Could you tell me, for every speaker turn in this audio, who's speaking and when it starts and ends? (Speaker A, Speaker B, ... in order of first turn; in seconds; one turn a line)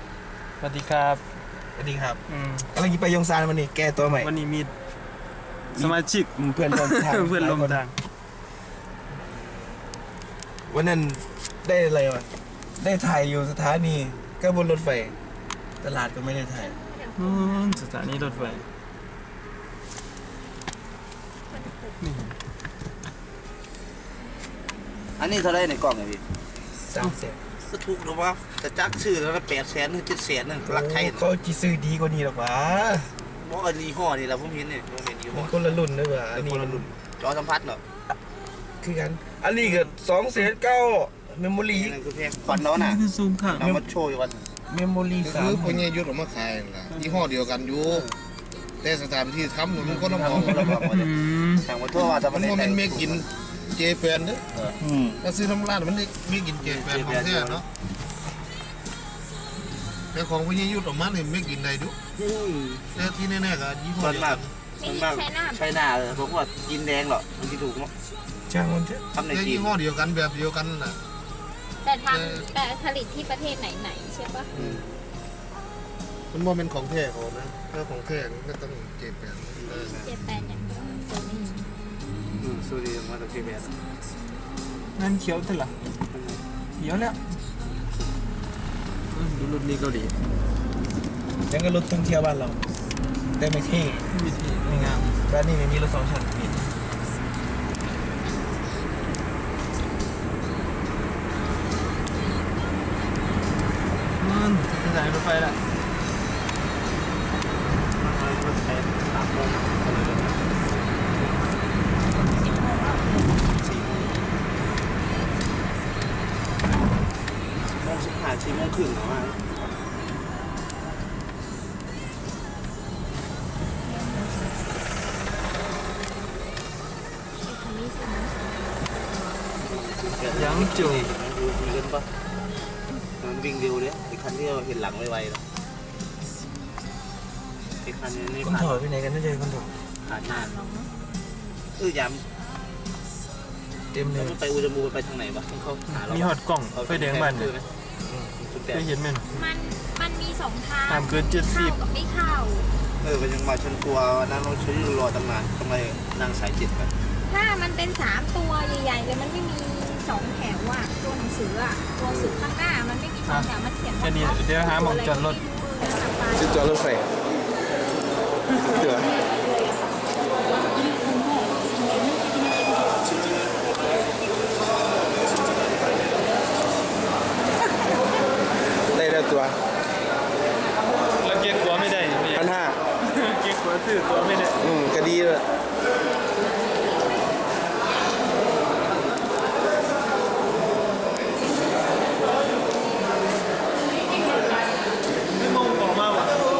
Speaker A: 0.6-1.2
Speaker B: 1.8-2.2
Speaker A: 2.3-2.7
Speaker B: 2.7-4.3
Speaker A: 4.1-4.7
Speaker B: 5.7-7.8
Speaker A: 5.7-7.9
Speaker B: 10.7-15.2
Speaker B: 15.8-18.6
Speaker C: 16.5-18.0
Speaker A: 17.3-18.5
Speaker D: 18.1-18.6
Speaker C: 21.5-22.1
Speaker A: 22.0-22.3
Speaker D: 25.2-26.2
Speaker B: 26.9-27.4
Speaker D: 27.6-31.3
Speaker B: 30.6-33.1
Speaker D: 33.3-35.6
Speaker B: 35.3-36.9
Speaker D: 36.3-37.8
Speaker B: 38.8-42.0
Speaker D: 39.6-39.9
Speaker D: 41.7-44.5
Speaker A: 42.5-43.6
Speaker B: 44.7-45.9
Speaker E: 45.2-48.0
Speaker A: 47.0-47.2
Speaker D: 47.8-48.1
Speaker E: 48.8-50.7
Speaker A: 49.8-51.7
Speaker D: 50.1-53.2
Speaker E: 52.3-54.4
Speaker B: 54.8-55.2
Speaker E: 55.2-57.6
Speaker D: 56.6-57.6
Speaker E: 60.1-62.0
Speaker D: 62.1-62.9
Speaker E: 62.9-64.5
Speaker D: 64.0-67.9
Speaker C: 64.8-65.8
Speaker B: 68.5-69.0
Speaker D: 69.1-69.7
Speaker E: 69.3-71.0
Speaker C: 71.8-74.5
Speaker E: 72.1-72.5
Speaker E: 74.5-74.8
Speaker D: 74.5-75.0
Speaker E: 76.3-80.0
Speaker D: 79.6-80.1
Speaker C: 79.7-81.7
Speaker D: 82.4-83.8
Speaker A: 85.0-85.7
Speaker D: 86.1-86.4
Speaker A: 86.8-87.2
Speaker A: 89.1-89.7
Speaker B: 89.4-90.1
Speaker B: 91.5-92.6
Speaker B: 93.4-94.0
Speaker A: 94.1-95.1
Speaker B: 94.6-96.6
Speaker A: 104.2-105.6
Speaker D: 107.9-110.4
Speaker D: 113.5-114.2
Speaker D: 117.8-119.7
Speaker C: 123.8-124.6
Speaker C: 127.4-129.5
Speaker D: 129.6-132.1
Speaker A: 130.3-131.1
Speaker D: 133.2-135.4
Speaker D: 137.8-138.8
Speaker B: 138.4-139.7
Speaker D: 140.0-140.6
Speaker C: 140.1-140.9
Speaker D: 141.8-142.2
Speaker B: 143.9-144.4
Speaker D: 144.1-147.7
Speaker A: 145.9-147.5
Speaker D: 148.4-148.9
Speaker A: 148.7-149.3
Speaker C: 149.3-152.7
Speaker A: 150.9-151.8
Speaker D: 153.0-156.9
Speaker C: 157.3-166.7
Speaker D: 162.0-162.4
Speaker A: 163.3-165.4
Speaker B: 166.3-167.1
Speaker B: 168.6-169.2
Speaker C: 171.6-172.3
Speaker B: 178.9-179.6
Speaker A: 181.2-182.4
Speaker B: 182.3-182.8
Speaker A: 183.0-184.6
Speaker B: 184.6-185.4
Speaker A: 195.4-196.4